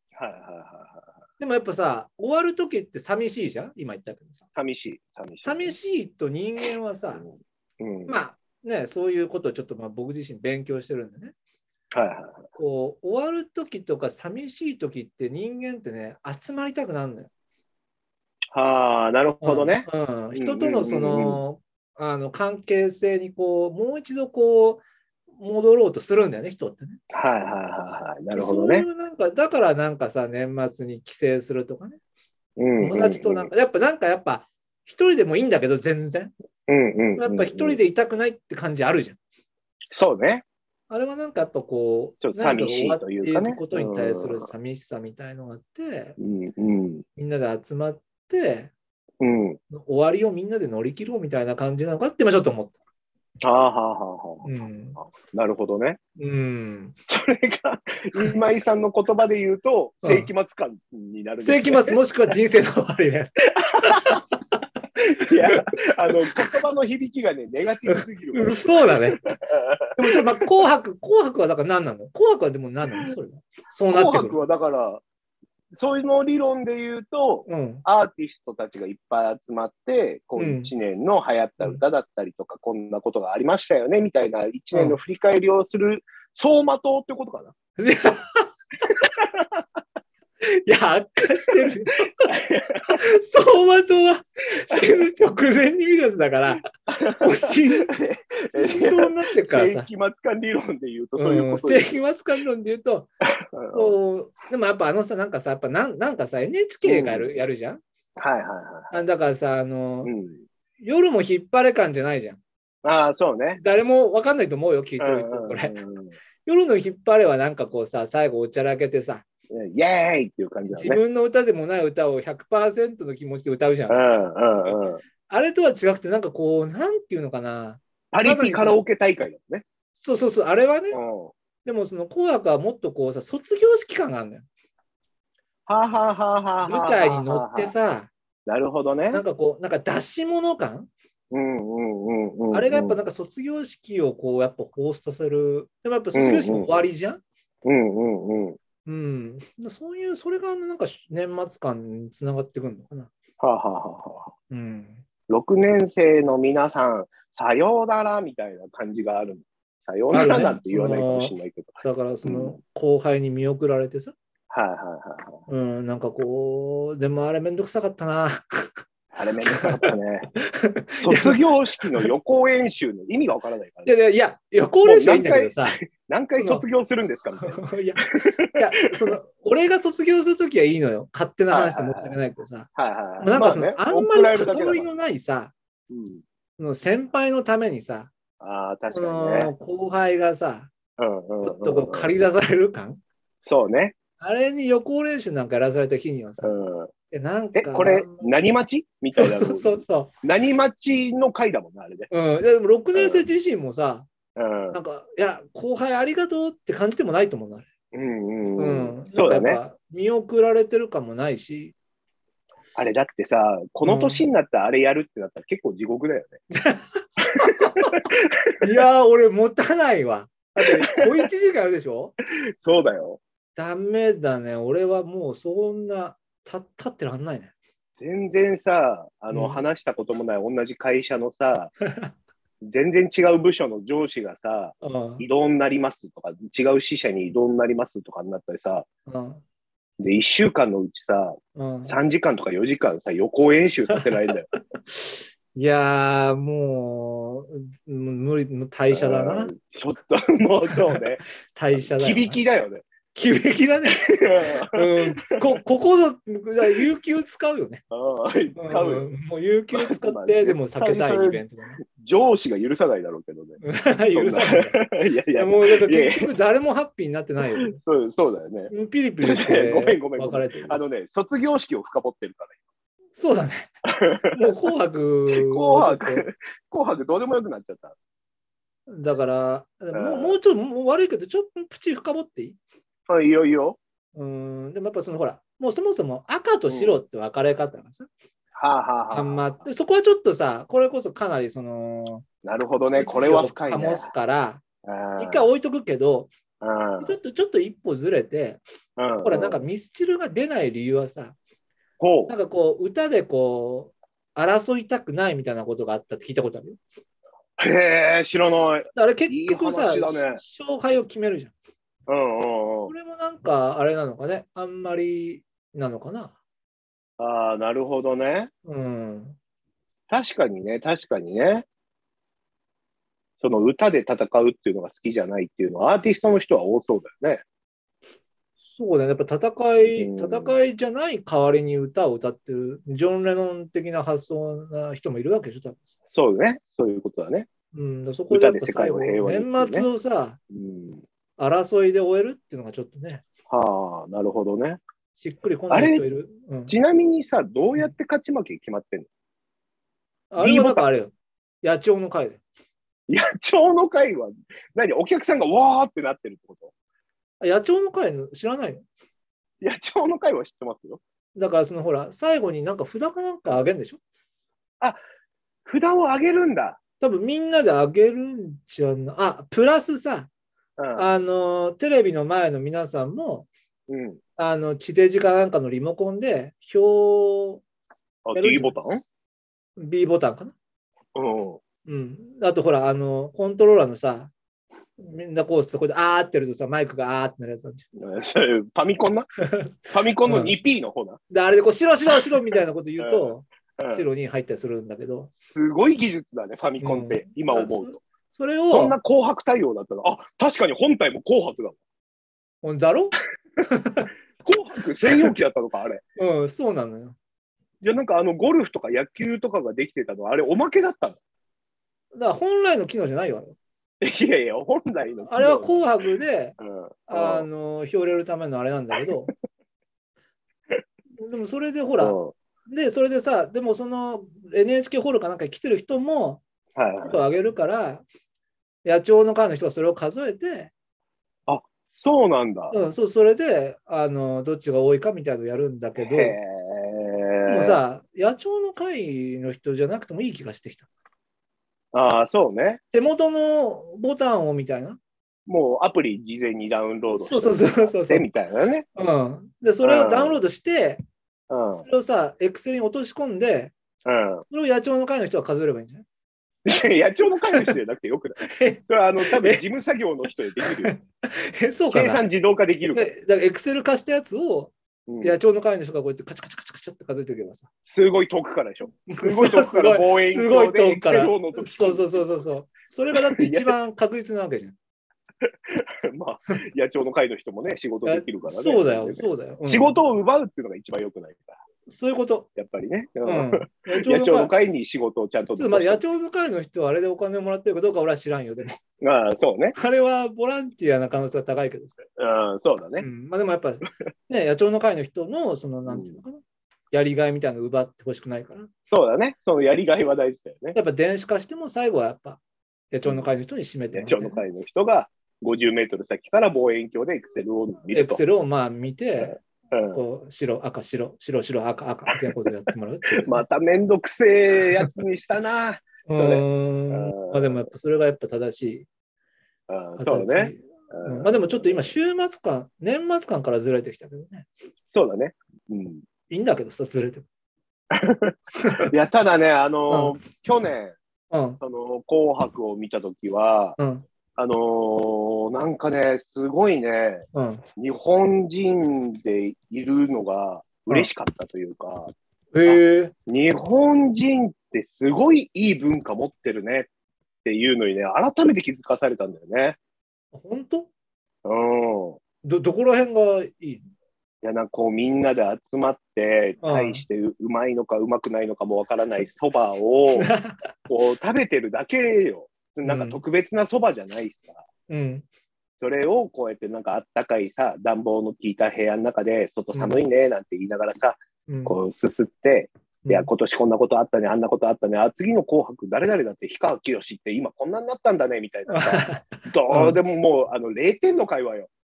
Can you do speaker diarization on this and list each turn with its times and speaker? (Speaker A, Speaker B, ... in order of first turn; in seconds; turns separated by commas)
Speaker A: 0.2-1.1, Speaker B: 1.4-4.5, Speaker A: 4.5-5.8, Speaker B: 5.4-7.2, Speaker A: 7.1-8.2, Speaker B: 8.1-11.3, Speaker A: 11.9-12.5, Speaker B: 12.6-17.3, Speaker A: 18.5-21.4, Speaker B: 19.4-24.8, Speaker B: 25.4-27.0, Speaker A: 27.1-28.9, Speaker B: 28.3-32.0, Speaker A: 32.6-33.5, Speaker B: 32.8-36.3, Speaker A: 36.7-37.8, Speaker B: 37.2-39.2, Speaker A: 39.9-40.5, Speaker B: 40.9-46.2, Speaker A: 42.2-44.5, Speaker A: 46.2-47.0, Speaker B: 47.2-48.7, Speaker A: 49.2-49.6, Speaker B: 49.7-52.8, Speaker A: 53.4-56.0, Speaker B: 54.4-55.0, Speaker B: 56.2-57.0, Speaker A: 57.1-62.0, Speaker B: 60.0-60.3, Speaker B: 61.4-63.3, Speaker B: 63.8-64.2, Speaker A: 65.2-69.9, Speaker B: 67.9-69.2, Speaker B: 70.0-74.4, Speaker A: 73.9-75.0, Speaker A: 75.7-87.5, Speaker B: 77.5-77.8, Speaker B: 80.4-80.7, Speaker B: 84.7-85.0, Speaker B: 87.8-88.5, Speaker A: 89.2-89.5, Speaker B: 90.5-92.3, Speaker A: 92.3-92.8, Speaker B: 92.9-97.9, Speaker A: 94.7-95.0, Speaker A: 97.8-102.0, Speaker B: 98.5-99.9, Speaker B: 101.2-103.1, Speaker A: 103.5-104.0, Speaker B: 103.7-107.8, Speaker A: 106.8-107.4, Speaker A: 108.2-109.0, Speaker B: 108.9-110.1, Speaker A: 110.0-110.4, Speaker B: 110.8-112.4, Speaker A: 112.8-113.6, Speaker B: 113.6-115.8, Speaker A: 115.0-116.2, Speaker B: 116.5-119.2, Speaker A: 119.5-121.0, Speaker B: 120.7-128.8, Speaker A: 123.9-125.0, Speaker A: 128.1-129.7, Speaker B: 130.0-131.0, Speaker A: 130.9-131.3, Speaker B: 131.7-134.5, Speaker A: 135.7-137.7, Speaker B: 136.6-138.1, Speaker A: 138.5-139.2, Speaker B: 139.1-140.9, Speaker A: 141.3-143.0, Speaker B: 142.5-147.2, Speaker A: 146.2-146.8, Speaker A: 147.6-148.6, Speaker B: 148.9-153.1, Speaker A: 153.4-154.3, Speaker B: 154.5-155.0, Speaker A: 155.3-162.6, Speaker B: 160.1-164.1, Speaker A: 164.5-165.4, Speaker B: 165.5-168.8, Speaker A: 169.1-170.3, Speaker B: 169.5-171.4, Speaker A: 171.0-173.9, Speaker B: 173.9-175.8, Speaker A: 174.8-177.7, Speaker B: 176.4-176.7, Speaker B: 177.3-185.5, Speaker A: 181.5-182.2, Speaker A: 182.8-184.9, Speaker A: 185.9-186.2, Speaker B: 186.6-188.1, Speaker A: 188.4-189.5, Speaker B: 188.9-190.7, Speaker A: 191.0-192.1, Speaker B: 191.4-193.0, Speaker A: 193.4-193.9, Speaker B: 194.2-196.5, Speaker A: 196.4-196.9, Speaker B: 197.1-198.3, Speaker A: 197.5-202.1, Speaker B: 199.2-200.1, Speaker B: 202.1-204.1, Speaker A: 202.9-203.3, Speaker A: 204.3-204.8, Speaker B: 204.7-207.7, Speaker A: 207.9-209.6, Speaker B: 208.6-211.7, Speaker A: 212.8-216.4, Speaker B: 213.8-214.2, Speaker B: 216.5-218.0, Speaker A: 217.4-218.2, Speaker B: 218.6-222.2, Speaker A: 222.6-223.2, Speaker B: 223.6-227.5, Speaker A: 228.0-231.7, Speaker B: 229.3-229.6, Speaker B: 231.8-232.1, Speaker A: 232.6-238.9, Speaker B: 234.8-235.2, Speaker B: 239.1-239.4, Speaker A: 240.0-244.5, Speaker B: 241.6-242.0, Speaker B: 245.6-249.5, Speaker A: 248.9-251.2, Speaker B: 250.7-252.4, Speaker A: 251.8-252.9, Speaker B: 253.2-257.8, Speaker A: 254.2-255.6, Speaker A: 257.9-259.1, Speaker B: 258.6-261.8, Speaker A: 259.7-266.4, Speaker B: 263.6-264.8, Speaker B: 265.4-267.8, Speaker A: 267.7-272.6, Speaker B: 268.7-270.8, Speaker B: 273.1-273.7, Speaker A: 273.9-274.3, Speaker B: 274.3-276.3, Speaker A: 275.3-277.9, Speaker B: 278.9-282.6, Speaker A: 279.9-280.4, Speaker A: 283.1-283.8, Speaker B: 284.1-288.1, Speaker A: 286.7-287.0, Speaker A: 288.5-289.6, Speaker B: 289.1-292.2, Speaker A: 292.4-294.1, Speaker B: 293.0-294.6, Speaker A: 294.8-295.5, Speaker B: 295.2-296.3, Speaker A: 296.6-297.2, Speaker B: 297.0-298.6, Speaker A: 299.0-299.6, Speaker B: 299.2-301.4, Speaker A: 302.0-302.3, Speaker B: 302.3-306.8, Speaker A: 307.6-310.4, Speaker B: 308.9-311.5, Speaker A: 312.1-312.9, Speaker B: 312.9-316.4, Speaker A: 317.2-318.5, Speaker B: 318.7-319.4, Speaker A: 320.1-321.7, Speaker A: 323.4-327.4, Speaker B: 328.7-335.9, Speaker A: 329.9-330.6, Speaker A: 336.1-337.5, Speaker B: 337.7-340.4, Speaker A: 338.3-339.9, Speaker A: 340.5-341.0, Speaker B: 341.4-343.2, Speaker A: 343.5-344.8, Speaker B: 345.2-346.7, Speaker A: 345.7-346.1, Speaker A: 346.7-349.1, Speaker B: 350.3-352.4, Speaker A: 350.4-350.9, Speaker A: 353.1-356.7, Speaker B: 357.4-358.9, Speaker A: 359.6-361.0, Speaker B: 361.4-364.0, Speaker A: 365.6-366.8, Speaker B: 367.0-370.3, Speaker A: 370.8-371.1, Speaker B: 370.9-373.5, Speaker A: 373.9-374.2, Speaker B: 374.4-377.6, Speaker A: 378.2-379.0, Speaker B: 378.3-378.7, Speaker B: 379.8-380.6, Speaker A: 381.1-381.6, Speaker B: 381.9-384.3, Speaker B: 385.0-387.9, Speaker A: 388.0-389.3, Speaker B: 389.4-390.6, Speaker A: 389.9-391.2, Speaker B: 391.3-395.3, Speaker A: 393.0-394.1, Speaker A: 395.4-398.0, Speaker B: 396.8-399.0, Speaker A: 398.7-401.8, Speaker B: 402.6-404.1, Speaker A: 404.4-406.0, Speaker B: 406.2-407.2, Speaker A: 407.8-411.2, Speaker B: 412.1-413.6, Speaker A: 414.0-415.8, Speaker B: 415.3-419.3, Speaker A: 416.6-417.5, Speaker B: 421.2-426.4, Speaker A: 422.0-422.3, Speaker A: 426.8-427.3, Speaker B: 427.0-428.0, Speaker B: 428.9-430.7, Speaker A: 431.5-432.8, Speaker B: 432.7-436.4, Speaker A: 436.0-437.8, Speaker B: 437.5-440.9, Speaker A: 441.9-442.8, Speaker B: 442.9-445.0, Speaker A: 445.5-448.9, Speaker B: 447.1-448.3, Speaker B: 448.9-451.0, Speaker A: 449.8-450.4, Speaker A: 451.5-451.9, Speaker B: 451.7-453.7, Speaker A: 454.1-454.4, Speaker B: 454.5-456.1, Speaker A: 456.7-460.9, Speaker B: 458.4-459.6, Speaker B: 460.7-462.2, Speaker A: 461.9-463.1, Speaker B: 462.9-467.7, Speaker A: 465.1-465.4, Speaker A: 467.9-472.5, Speaker B: 469.1-474.8, Speaker A: 473.1-473.8, Speaker A: 475.4-481.6, Speaker B: 478.0-480.0, Speaker B: 481.9-482.5, Speaker A: 482.6-486.0, Speaker B: 483.2-484.5, Speaker B: 485.6-488.8, Speaker A: 489.0-489.8, Speaker B: 489.8-492.0, Speaker A: 492.2-493.1, Speaker B: 493.0-496.4, Speaker A: 495.9-496.2, Speaker B: 496.9-498.7, Speaker A: 498.9-500.8, Speaker B: 500.7-502.4, Speaker B: 502.9-504.4, Speaker A: 503.9-508.2, Speaker B: 507.9-513.4, Speaker A: 509.2-510.0, Speaker A: 513.1-517.6, Speaker B: 516.1-518.9, Speaker A: 519.7-521.9, Speaker B: 520.0-524.5, Speaker A: 524.9-526.0, Speaker B: 526.3-527.3, Speaker A: 527.9-531.0, Speaker B: 528.6-528.9, Speaker B: 529.9-530.2, Speaker B: 531.3-531.6, Speaker A: 531.6-533.8, Speaker B: 533.8-534.0, Speaker A: 534.4-537.3, Speaker B: 537.3-537.6, Speaker A: 537.8-542.1, Speaker B: 542.5-543.1, Speaker A: 542.7-546.9, Speaker A: 547.4-549.8, Speaker B: 550.3-550.9, Speaker A: 551.5-552.2, Speaker B: 552.4-553.9, Speaker A: 554.4-560.3, Speaker B: 556.6-557.0, Speaker B: 560.2-560.7, Speaker A: 560.9-564.6, Speaker B: 562.9-563.2, Speaker B: 564.9-565.2, Speaker A: 565.8-581.7, Speaker B: 571.5-571.8, Speaker B: 578.7-580.0